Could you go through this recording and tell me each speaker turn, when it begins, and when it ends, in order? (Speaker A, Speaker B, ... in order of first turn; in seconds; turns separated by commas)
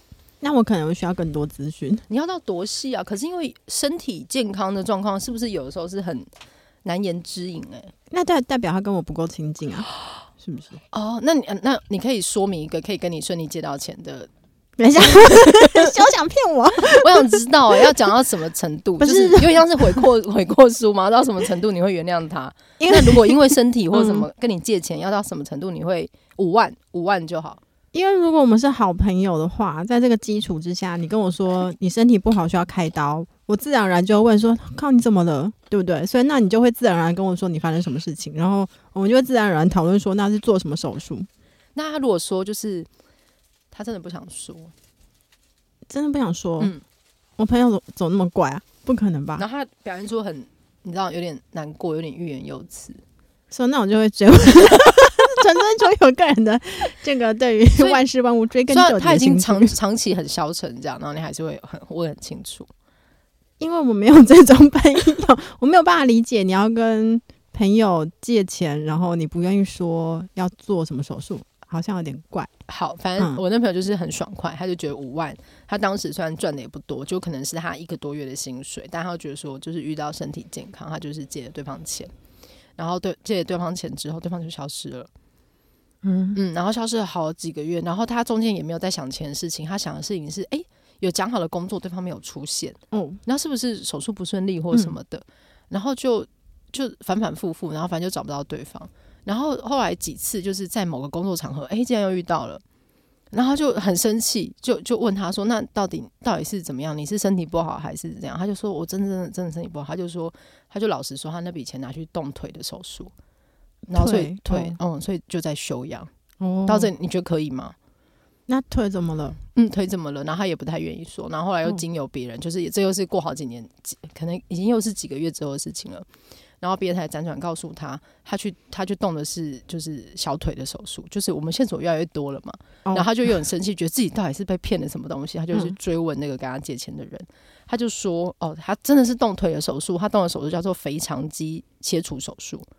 Speaker A: 0.4-2.0, Speaker B: 2.1-6.3, Speaker B: 6.8-7.9, Speaker A: 8.1-9.9, Speaker A: 10.4-10.8, Speaker B: 10.9-14.3, Speaker A: 14.8-17.9, Speaker B: 14.9-15.9, Speaker B: 16.8-27.6, Speaker A: 19.0-20.1, Speaker A: 22.8-23.4, Speaker A: 23.9-24.3, Speaker A: 27.9-41.3, Speaker B: 41.8-42.9, Speaker B: 43.7-44.7, Speaker A: 45.9-46.7, Speaker A: 47.4-49.5, Speaker B: 49.4-53.0, Speaker A: 53.5-59.7, Speaker B: 57.8-58.0, Speaker B: 58.7-62.7, Speaker A: 63.6-72.5, Speaker B: 72.7-82.1, Speaker B: 82.8-85.1, Speaker A: 86.0-86.4, Speaker B: 86.3-102.6, Speaker A: 92.9-93.2, Speaker B: 103.3-113.1, Speaker B: 113.9-116.1, Speaker A: 113.9-114.8, Speaker A: 116.4-116.9, Speaker B: 116.7-117.8, Speaker A: 118.5-119.4, Speaker B: 119.5-126.1, Speaker B: 126.6-142.7